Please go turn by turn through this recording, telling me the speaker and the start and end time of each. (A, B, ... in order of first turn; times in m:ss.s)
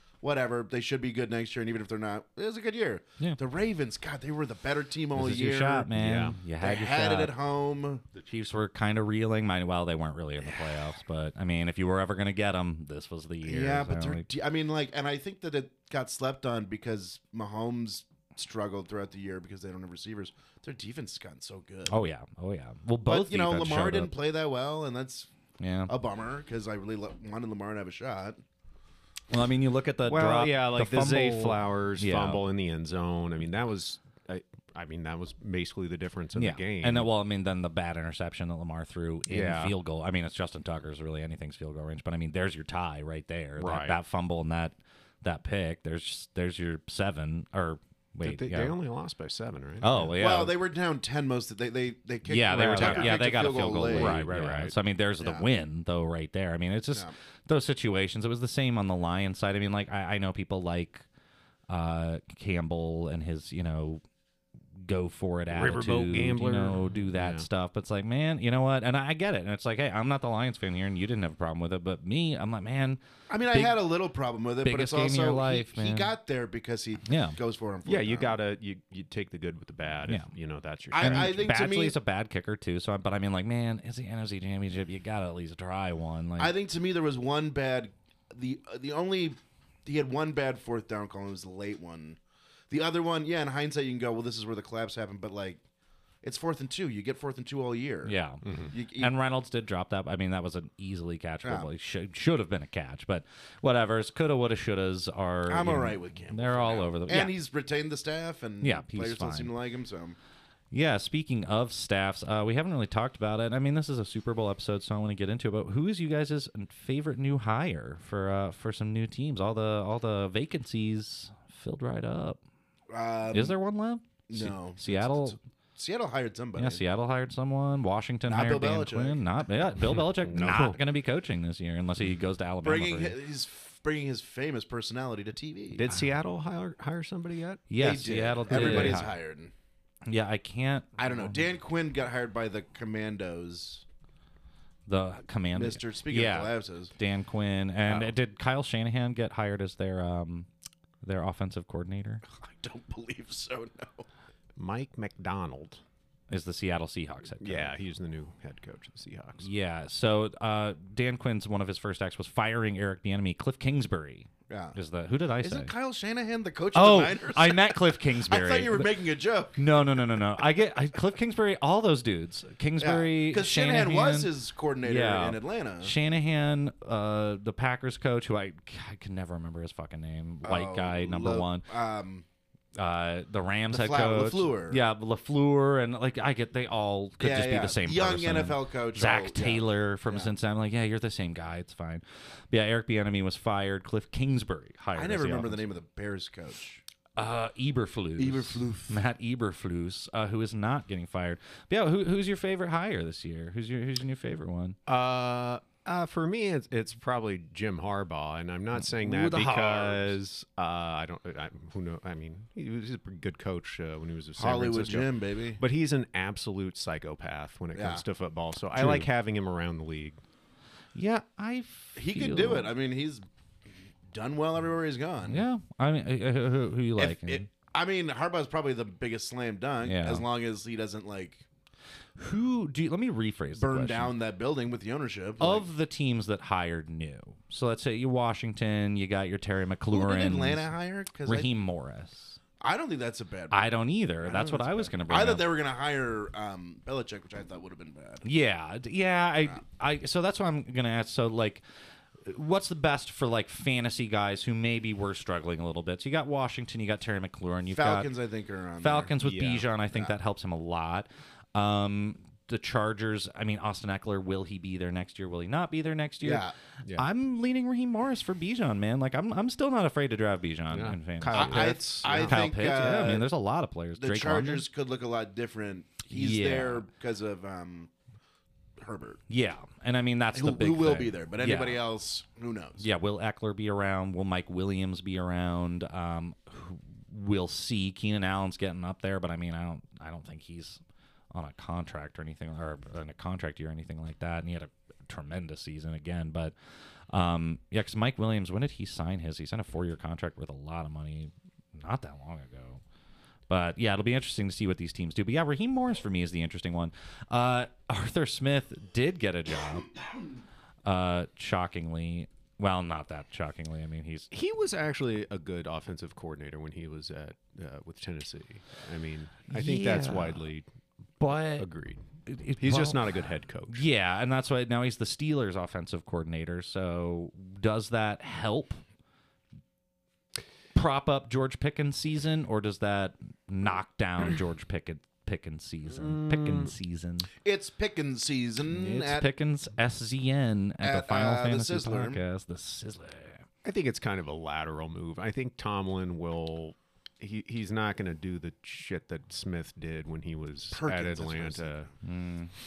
0:00.2-0:05.9 A
0:05.1-0:07.3 B
0:05.9-0:06.4 C
0:06.6-0:08.0 A
0:08.2-0:14.3 B
0:13.4-0:22.0 A
0:21.9-0:24.1 B
0:23.1-0:25.3 A
0:25.6-0:25.9 B
0:25.9-0:28.4 A
0:29.3-0:32.4 B
0:30.0-0:37.1 C
0:36.4-0:48.8 B
0:39.3-0:39.8 C
0:43.6-0:44.0 C
0:48.2-0:50.2 C
0:49.8-0:50.6 B
0:50.2-0:54.2 A
0:52.3-1:01.1 B
0:52.5-0:53.2 C
0:53.8-0:54.8 C
0:55.2-0:55.5 A
1:01.7-1:04.0 B
1:04.8-1:13.8 B
1:05.5-1:07.4 C
1:13.3-1:18.4 A
1:14.6-1:16.1 B
1:17.1-1:17.4 B
1:17.8-1:21.5 C
1:20.9-1:22.0 A
1:21.0-1:26.5 B
1:26.4-1:32.2 A
1:32.7-1:35.6 A
1:36.2-1:38.2 A
1:38.0-1:47.3 B
1:38.4-1:38.7 C
1:38.7-1:39.1 A
1:41.4-1:41.7 A
1:45.5-1:50.2 A
1:48.6-1:49.5 B
1:50.7-2:02.4 B
2:02.9-2:03.6 A
2:03.3-2:05.4 B
2:04.3-2:06.8 A
2:06.6-2:13.2 B
2:08.3-2:09.2 A
2:10.1-2:10.8 C
2:12.6-2:15.9 A
2:15.7-2:17.7 C
2:17.7-2:19.1 B
2:17.8-2:19.5 A
2:18.5-2:19.1 C
2:20.1-2:21.4 B
2:21.0-2:23.8 A
2:24.9-2:30.5 B
2:25.5-2:26.9 A
2:31.0-2:32.2 B
2:32.3-2:34.1 A
2:34.6-2:35.8 C
2:36.3-2:37.7 B
2:37.4-2:39.5 C
2:39.4-2:45.7 B
2:44.5-2:44.8 A
2:45.4-2:50.2 A
2:46.7-2:48.9 B
2:49.6-2:54.3 B
2:52.8-2:55.9 A
2:54.8-3:01.7 B
3:00.4-3:02.2 A
3:02.8-3:15.7 B
3:03.7-3:04.8 A
3:07.2-3:10.3 A
3:14.9-3:16.8 A
3:17.2-3:24.8 B
3:18.2-3:19.0 A
3:24.9-3:40.2 C
3:28.8-3:30.2 B
3:34.4-3:35.6 A
3:37.7-3:38.0 A
3:38.8-3:39.1 A
3:41.0-3:42.7 B
3:42.0-3:43.3 A
3:44.1-3:45.4 A
3:45.3-3:47.5 B
3:47.0-3:51.4 A
3:49.8-3:50.2 B
3:52.2-3:54.2 B
3:53.6-3:55.7 A
3:55.4-4:00.7 B
3:59.9-4:01.5 A
4:01.2-4:02.4 B
4:02.6-4:08.2 A
4:03.5-4:05.5 B
4:08.2-4:11.6 B
4:12.2-4:18.1 B
4:17.7-4:19.1 A
4:18.8-4:34.7 B
4:19.2-4:19.7 C
4:26.2-4:26.6 A
4:30.7-4:32.4 C
4:31.3-4:33.3 A
4:34.0-4:37.9 A
4:36.1-4:36.9 B
4:38.8-4:39.2 A
4:39.3-4:41.8 B
4:40.3-4:42.8 A
4:42.8-4:50.8 B
4:51.3-4:56.5 B
4:57.1-5:02.8 B
5:03.5-5:09.9 B
5:10.8-5:14.3 B
5:14.3-5:20.6 C
5:19.5-5:20.4 B
5:21.2-5:21.7 B
5:21.6-5:22.0 C
5:22.3-5:28.8 B
5:22.6-5:23.8 C
5:30.8-5:37.3 B
5:35.9-5:36.7 C
5:37.4-5:39.3 A
5:38.7-5:43.4 B
5:40.8-5:42.2 A
5:43.6-5:51.9 C
5:50.7-5:51.7 A
5:52.0-5:52.5 B